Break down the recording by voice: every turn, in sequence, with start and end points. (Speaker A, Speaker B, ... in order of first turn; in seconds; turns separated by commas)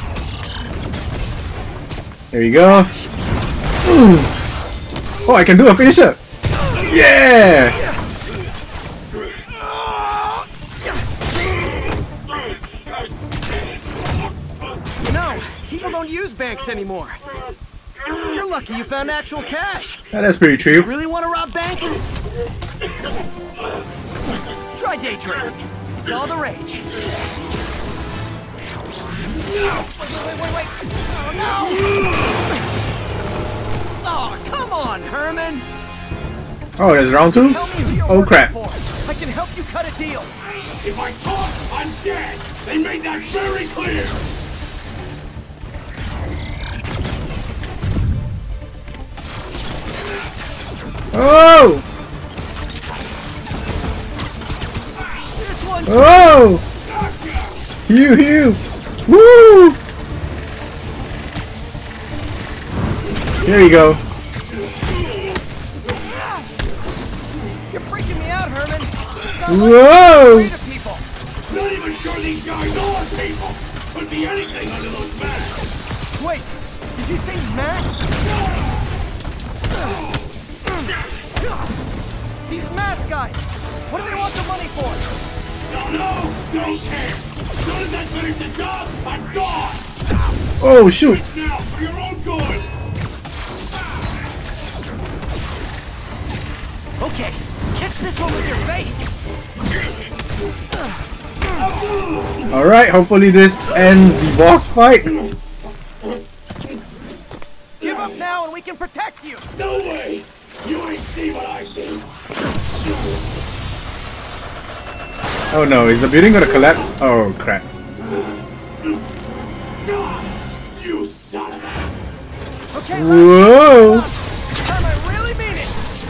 Speaker A: 2.3-2.9, Speaker B: 2.6-3.1, Speaker A: 3.8-4.3, Speaker A: 5.2-6.2, Speaker A: 6.8-7.8, Speaker B: 7.8-8.0, Speaker B: 15.1-17.2, Speaker B: 18.3-20.0, Speaker A: 20.1-20.9, Speaker B: 20.8-22.0, Speaker B: 24.7-26.9, Speaker B: 29.8-32.0, Speaker C: 31.9-32.2, Speaker B: 34.0-35.7, Speaker A: 36.8-38.5, Speaker B: 37.4-40.3, Speaker C: 40.7-44.2, Speaker A: 51.1-51.8, Speaker B: 55.4-56.3, Speaker A: 55.9-56.6, Speaker C: 56.8-57.7, Speaker A: 57.9-59.8, Speaker A: 63.4-64.0, Speaker B: 66.0-66.5, Speaker B: 67.7-71.1, Speaker A: 69.5-70.5, Speaker C: 71.5-75.7, Speaker B: 76.2-78.0, Speaker C: 78.2-78.9, Speaker C: 79.8-80.3, Speaker B: 82.5-85.0, Speaker C: 85.7-90.0, Speaker A: 90.6-91.3, Speaker C: 91.0-92.7, Speaker B: 97.0-99.1, Speaker C: 101.6-102.6, Speaker A: 102.5-105.2, Speaker B: 107.8-109.4, Speaker C: 109.6-112.1, Speaker C: 112.9-113.1, Speaker A: 115.5-117.7, Speaker C: 119.8-121.9, Speaker B: 122.7-125.8, Speaker A: 122.9-124.1